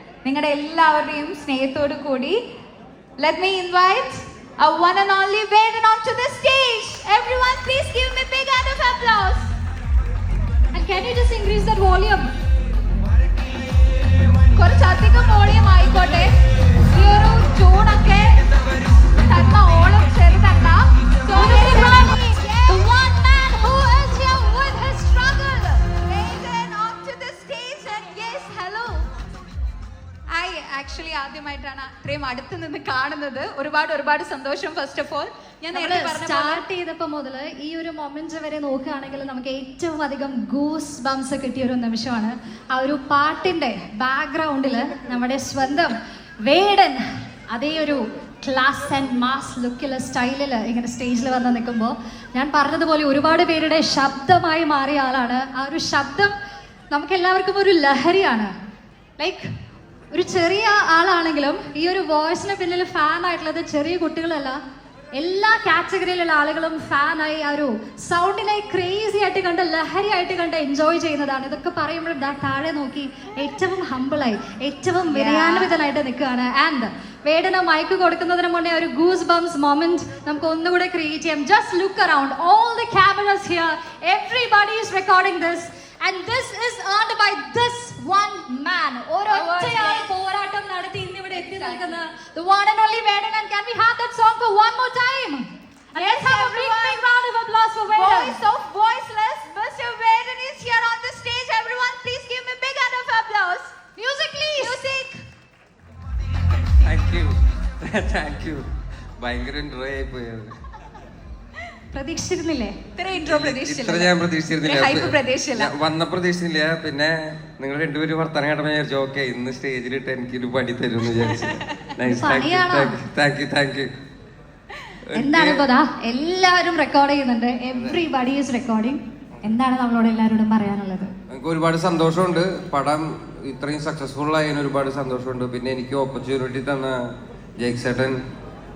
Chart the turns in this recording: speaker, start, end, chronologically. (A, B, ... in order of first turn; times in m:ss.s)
0:00.2-0:02.4 A
0:03.2-0:09.5 A
0:10.7-0:12.3 B
0:14.6-0:16.3 A
0:16.9-0:18.4 A
0:19.2-0:22.9 A
0:21.3-0:25.4 B
0:24.5-0:29.0 A
0:30.3-0:36.6 A
0:35.7-0:56.3 B
0:56.9-0:58.5 B
0:59.2-0:59.4 B
1:00.1-1:04.6 B
1:05.2-1:38.4 B
1:15.1-1:15.7 A
1:29.3-1:30.1 A
1:31.3-1:32.0 A
1:35.9-1:37.1 A
1:37.9-1:43.8 A
1:44.0-1:44.8 B
1:44.6-1:45.2 A
1:46.8-1:48.6 C
1:49.2-1:50.5 C
1:51.9-1:52.8 B
1:53.0-1:55.7 A
1:53.2-2:03.9 C
2:01.2-2:01.6 A
2:02.0-2:03.0 B
2:05.1-2:05.6 C
2:05.1-2:11.1 B
2:07.7-2:08.0 C
2:11.3-2:17.0 C
2:17.6-2:18.2 C